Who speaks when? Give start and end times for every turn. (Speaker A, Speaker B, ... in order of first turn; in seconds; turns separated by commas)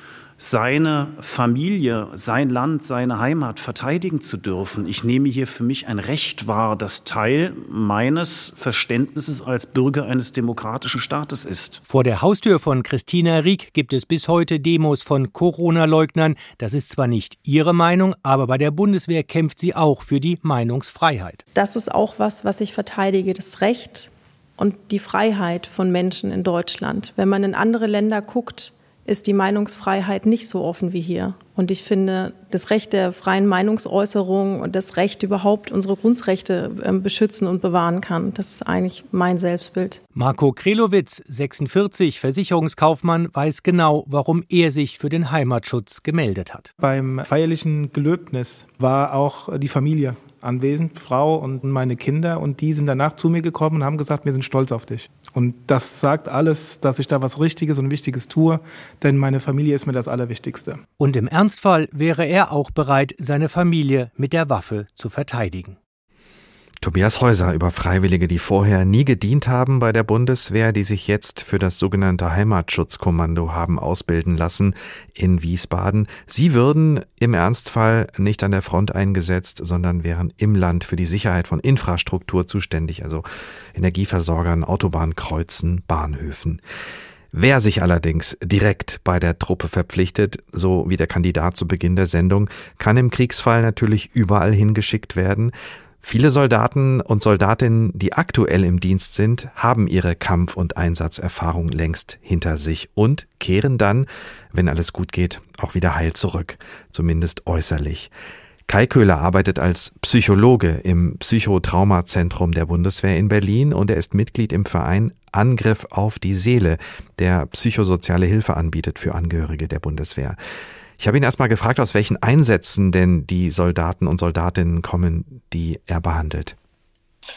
Speaker A: 0.4-11.8, Speaker B: 11.9-21.4, Speaker C: 21.6-40.0, Speaker B: 40.1-46.7, Speaker D: 46.8-60.8, Speaker B: 61.0-65.8, Speaker E: 66.8-86.6, Speaker E: 87.3-108.1, Speaker E: 108.7-120.4, Speaker E: 121.0-126.6